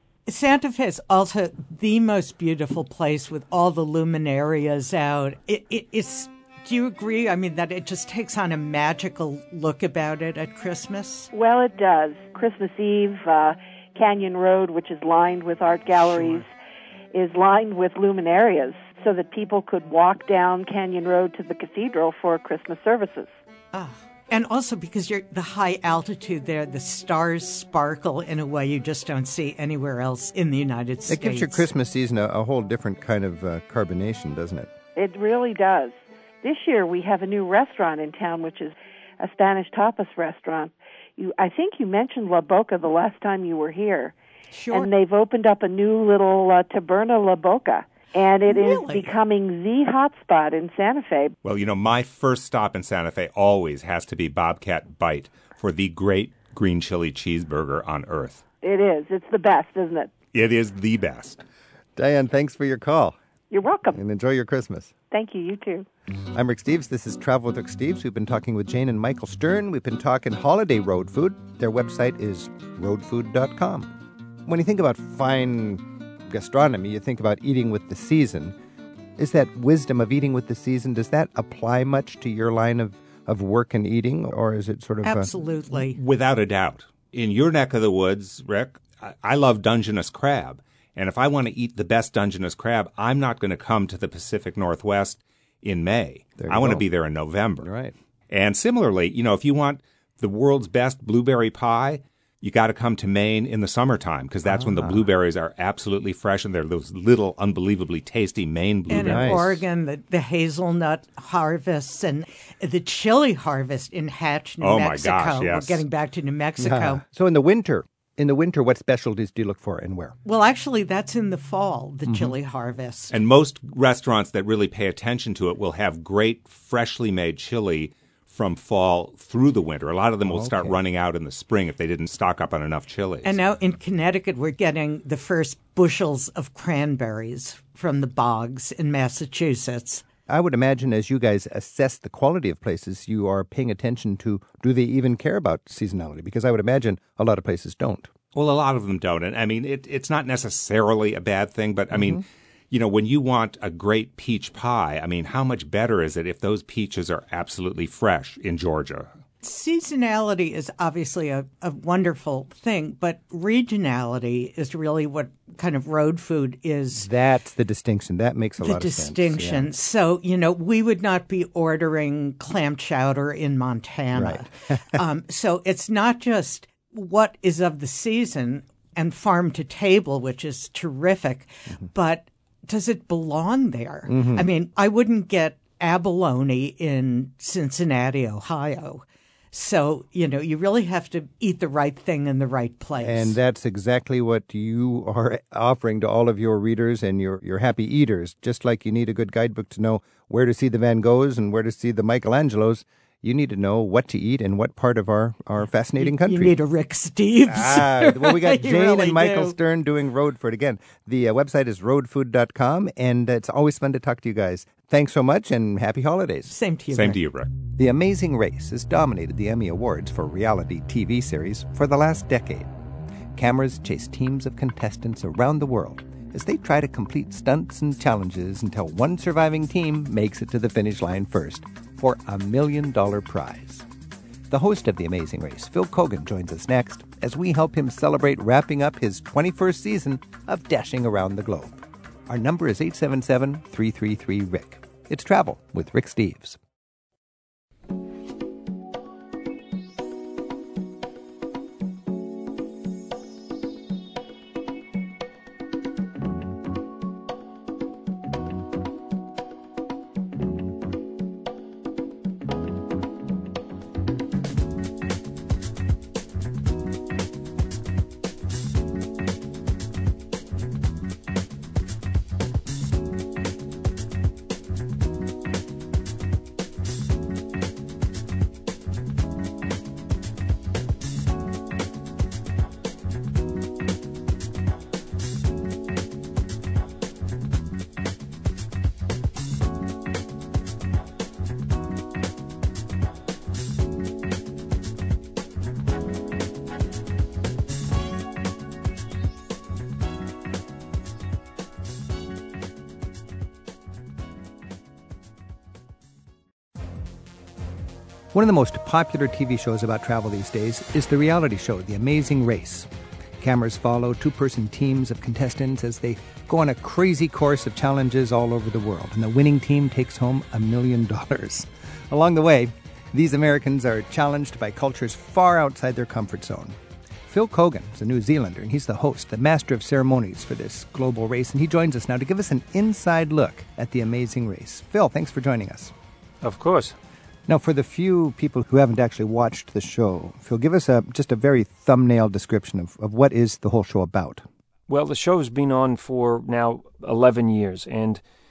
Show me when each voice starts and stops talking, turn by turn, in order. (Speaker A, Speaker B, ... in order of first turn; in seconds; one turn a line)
Speaker A: 0.3-11.3
Speaker B: 11.3-16.5
Speaker A: 15.9-16.4
Speaker B: 17.1-23.3
Speaker A: 23.7-31.6
Speaker C: 31.1-34.7
Speaker B: 35.0-44.1
Speaker A: 44.5-44.9
Speaker B: 44.7-51.3
Speaker A: 48.5-49.1
Speaker D: 51.4-58.4
Speaker B: 58.6-60.1
Speaker D: 60.3-61.4
Speaker C: 62.0-63.2
Speaker B: 63.5-64.0
Speaker C: 63.9-64.9
Speaker B: 65.1-65.9
Speaker C: 66.3-73.9
Speaker C: 74.5-78.5
Speaker C: 79.2-85.3
Speaker A: 85.0-86.0
Speaker D: 85.9-97.7
Speaker C: 96.4-96.8
Speaker C: 97.6-97.9
Speaker D: 98.3-109.6
Speaker C: 104.4-105.1
Speaker A: 108.9-117.0
Speaker C: 108.9-109.4
Speaker D: 114.6-115.8
Speaker C: 116.6-120.2
Speaker A: 120.2-123.1
Speaker C: 122.1-122.3
Speaker D: 123.1-133.4
Speaker C: 130.2-130.8
Speaker A: 133.2-140.1
Speaker C: 140.3-148.1
Speaker D: 148.3-159.1
Speaker C: 151.9-152.2
Speaker A: 159.4-167.1
Speaker C: 166.9-169.7
Speaker A: 168.6-193.4
Speaker C: 174.1-175.0
Speaker C: 184.1-184.5
Speaker C: 193.0-206.5
Speaker A: 206.0-209.6
Speaker C: 207.5-216.5
Speaker A: 216.5-217.2
Speaker D: 216.9-217.5
Speaker C: 217.8-222.7
Speaker C: 223.3-233.8
Speaker C: 234.5-246.6
Speaker C: 308.3-326.8
Speaker C: 327.3-335.9
Speaker E: 336.4-337.0
Speaker C: 337.5-344.4
Speaker E: 344.9-348.2